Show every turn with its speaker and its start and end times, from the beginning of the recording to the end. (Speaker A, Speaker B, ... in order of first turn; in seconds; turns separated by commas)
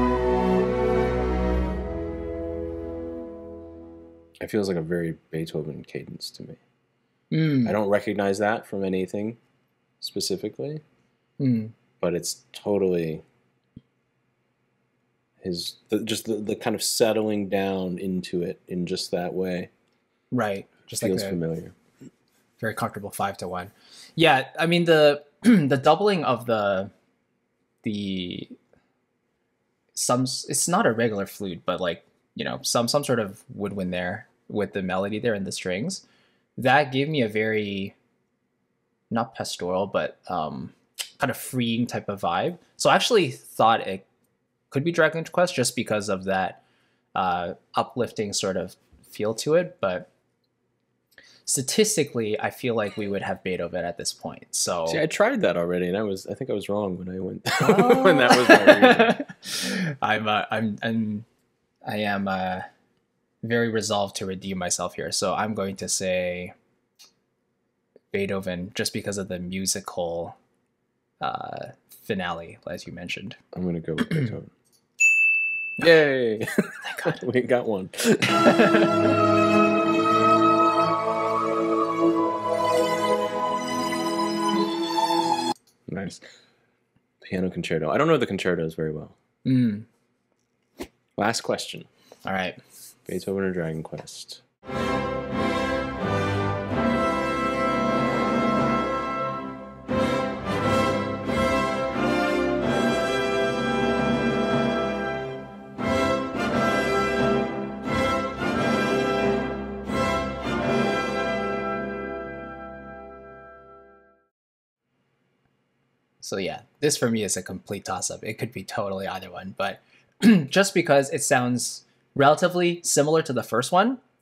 Speaker A: 4.4-6.6, Speaker B: 7.3-7.8, Speaker A: 7.6-9.4, Speaker A: 10.0-10.8, Speaker B: 11.4-11.7, Speaker A: 12.0-13.2, Speaker A: 15.4-19.7, Speaker B: 20.3-21.4, Speaker A: 21.0-21.7, Speaker B: 22.6-26.9, Speaker B: 27.8-28.5, Speaker B: 29.9-36.0, Speaker B: 36.6-37.9, Speaker B: 39.1-44.0, Speaker B: 44.7-46.6, Speaker B: 47.1-50.1, Speaker B: 51.5-55.0, Speaker A: 54.9-59.2, Speaker B: 57.6-61.2, Speaker B: 61.9-62.6, Speaker B: 63.4-66.5, Speaker B: 68.1-70.4, Speaker B: 71.2-73.4, Speaker A: 73.5-74.5, Speaker A: 75.8-78.5, Speaker B: 76.9-77.1, Speaker B: 78.3-79.1, Speaker A: 85.9-86.2, Speaker A: 87.2-89.2, Speaker B: 89.4-89.8, Speaker A: 91.2-91.9, Speaker B: 92.2-92.6, Speaker A: 93.0-94.4, Speaker B: 116.2-124.0